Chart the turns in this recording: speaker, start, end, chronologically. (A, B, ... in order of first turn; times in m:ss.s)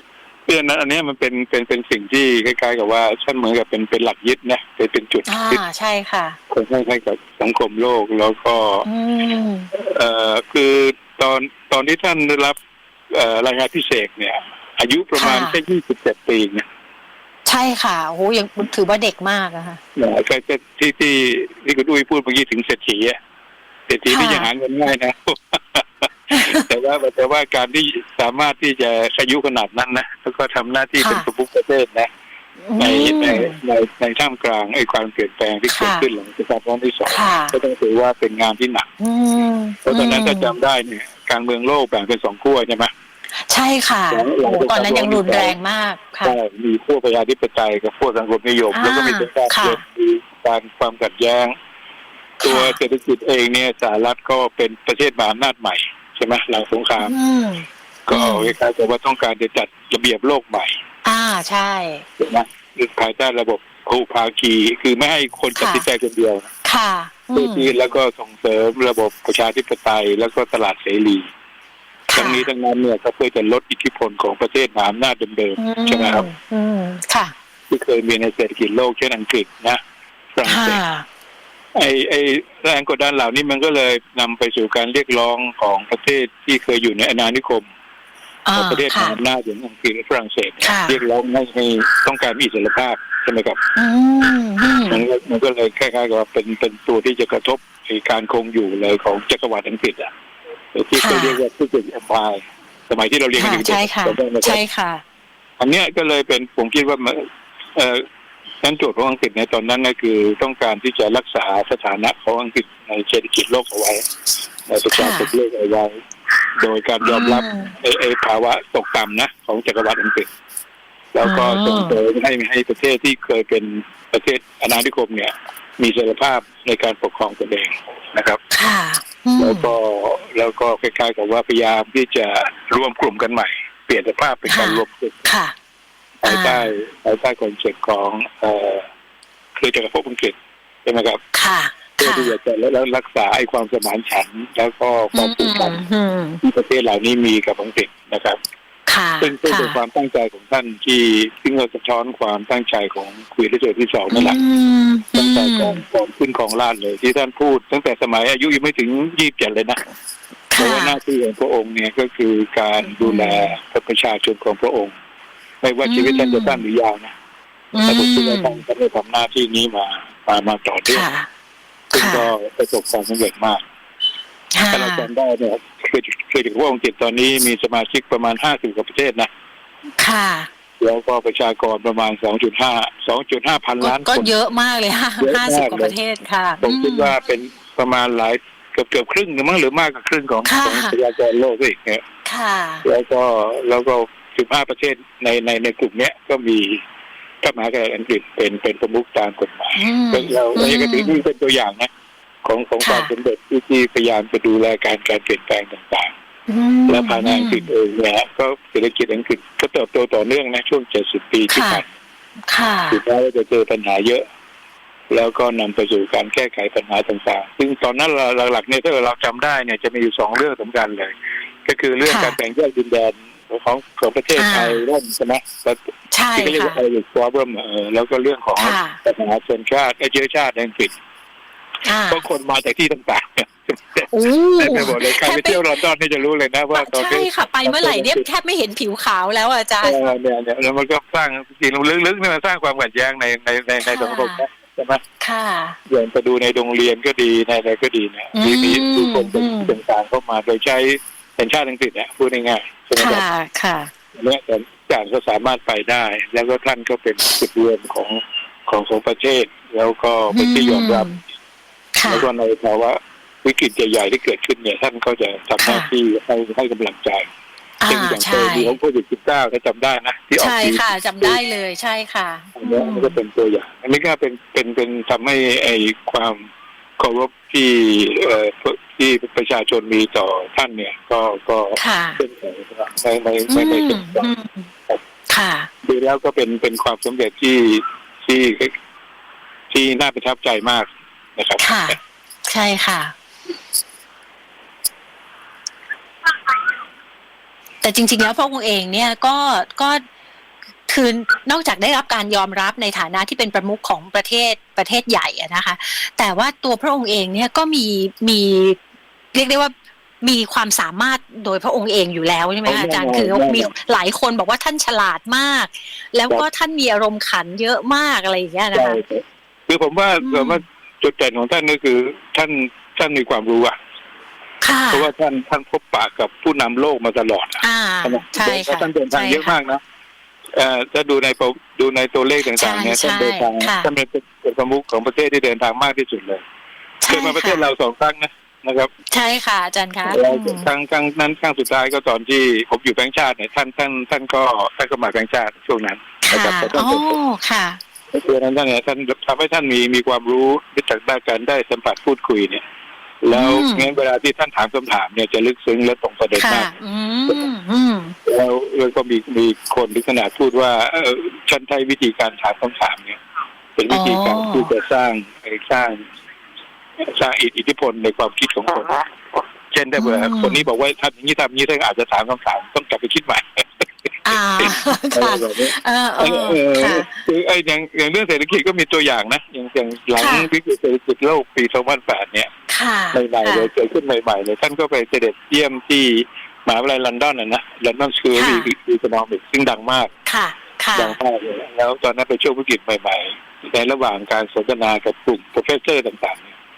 0:00.5-0:05.6 A
0:05.3-0:06.4 B
0:06.5-0:08.8 A
0:08.8-0:09.7 B
0:09.7-0:12.6 A
0:13.1-0:16.6 A
0:15.2-0:15.6 B
0:17.4-0:19.8 B
0:20.0-0:23.2 A
0:23.9-0:32.1 A
0:24.1-0:24.5 B
0:26.3-0:26.6 B
0:31.0-0:31.3 B
0:32.7-0:33.6 B
0:32.8-0:38.9 A
0:35.7-0:36.0 B
0:37.0-0:37.5 B
0:39.0-0:40.5 B
0:39.8-0:42.9 A
0:43.5-0:46.4 B
0:44.1-0:45.6 A
0:46.2-0:51.5 A
0:48.7-0:49.8 B
0:52.4-0:52.8 B
0:52.4-0:57.1 A
0:57.0-0:58.5 B
0:58.1-1:00.8 A
1:01.0-1:02.0 B
1:02.2-1:06.4 A
1:05.6-1:05.8 B
1:06.6-1:07.7 B
1:07.3-1:11.3 A
1:12.1-1:12.5 B
1:12.1-1:16.3 A
1:15.6-1:17.3 B
1:17.7-1:19.8 A
1:20.3-1:20.8 A
1:20.4-1:21.0 B
1:21.7-1:27.6 A
1:28.4-1:29.2 B
1:28.6-1:33.6 A
1:30.6-1:31.0 B
1:33.8-1:35.0 B
1:34.9-1:40.1 A
1:40.7-1:44.6 A
1:41.0-1:41.4 B
1:43.4-1:45.0 B
1:45.6-1:48.0 A
1:48.6-1:54.0 A
1:54.7-1:56.0 A
1:54.9-1:55.3 B
1:56.6-2:00.3 A
1:57.0-1:57.7 B
2:01.1-2:08.4 A
2:01.2-2:02.0 B
2:08.5-2:09.7 B
2:09.4-2:15.3 A
2:14.5-2:15.5 B
2:16.2-2:18.9 A
2:16.2-2:16.7 B
2:19.6-2:21.2 A
2:21.3-2:22.3 B
2:22.0-2:25.8 A
2:25.1-2:26.4 B
2:26.4-2:28.4 A
2:28.9-2:29.8 B
2:29.2-2:34.4 A
2:34.1-2:35.8 B
2:35.1-2:39.8 A
2:40.5-2:41.0 B
2:40.6-2:44.9 A
2:43.0-2:43.5 B
2:45.6-2:47.1 A
2:45.8-2:46.6 B
2:47.7-2:48.6 B
2:47.8-2:51.1 A
2:50.9-2:51.3 B
2:51.9-2:53.6 A
2:51.9-2:52.3 B
2:54.5-2:55.1 B
2:54.7-2:59.3 A
3:00.0-3:00.5 B
3:00.8-3:04.3 A
3:03.8-3:07.2 B
3:05.2-3:06.0 A
3:06.6-3:12.0 A
3:10.4-3:10.9 B
3:12.2-3:12.8 B
3:12.8-3:16.8 A
3:17.4-3:21.9 A
3:19.8-3:21.2 B
3:22.4-3:26.1 A
3:22.8-3:23.1 B
3:26.5-3:27.7 B
3:26.9-3:31.9 A
3:31.5-3:31.8 B
3:32.5-3:33.0 B
3:32.9-3:34.2 A
3:35.1-3:41.1 A
3:41.6-3:45.8 A
3:42.0-3:42.4 B
3:44.4-3:44.8 B
3:46.1-3:46.8 B
3:46.4-3:50.9 A
3:48.6-3:49.0 B
3:51.8-3:52.2 B
3:52.1-3:58.2 A
3:54.1-3:55.6 B
3:56.7-4:00.0 B
3:59.8-4:05.0 A
4:03.8-4:04.4 B
4:05.2-4:05.8 B
4:05.9-4:13.2 A
4:08.4-4:09.7 B
4:13.0-4:13.9 B
4:14.1-4:21.1 A
4:20.3-4:21.2 B
4:22.0-4:22.3 B
4:22.0-4:27.3 A
4:25.6-4:25.9 B
4:27.8-4:28.7 B
4:27.9-4:31.4 A
4:30.4-4:33.2 B
4:32.6-4:36.5 A
4:37.0-4:44.3 A
4:41.8-4:42.2 B
4:43.5-4:44.6 B
4:45.3-4:45.7 B
4:45.8-4:48.7 A
4:49.7-4:52.0 A
4:51.6-4:53.1 B
4:57.8-5:00.0 B
5:00.9-5:08.8 B
5:09.3-5:19.0 B
5:12.6-5:13.7 A
5:18.7-5:23.8 A
5:20.2-5:20.6 B
5:24.6-5:25.1 B
5:24.9-5:29.8 A
5:27.6-5:29.5 B
5:30.5-5:36.4 A
5:32.5-5:33.9 B
5:37.0-5:37.7 B
5:37.1-5:38.9 A
5:39.1-5:40.7 B
5:40.0-5:47.2 A
5:46.2-5:47.8 B
5:48.1-5:52.6 A
5:53.2-5:56.7 A
5:53.3-5:53.9 B
5:56.4-5:58.2 B
5:58.2-6:03.2 A
6:03.8-6:06.0 A
6:03.9-6:04.7 B
6:07.0-6:09.1 A
6:09.7-6:13.8 A
6:10.0-6:10.6 B
6:14.2-6:17.1 B
6:14.6-6:22.5 A
6:20.2-6:20.5 B
6:22.7-6:23.7 B
6:23.1-6:30.1 A
6:28.3-6:28.7 B
6:30.2-6:31.2 B
6:30.9-6:36.5 A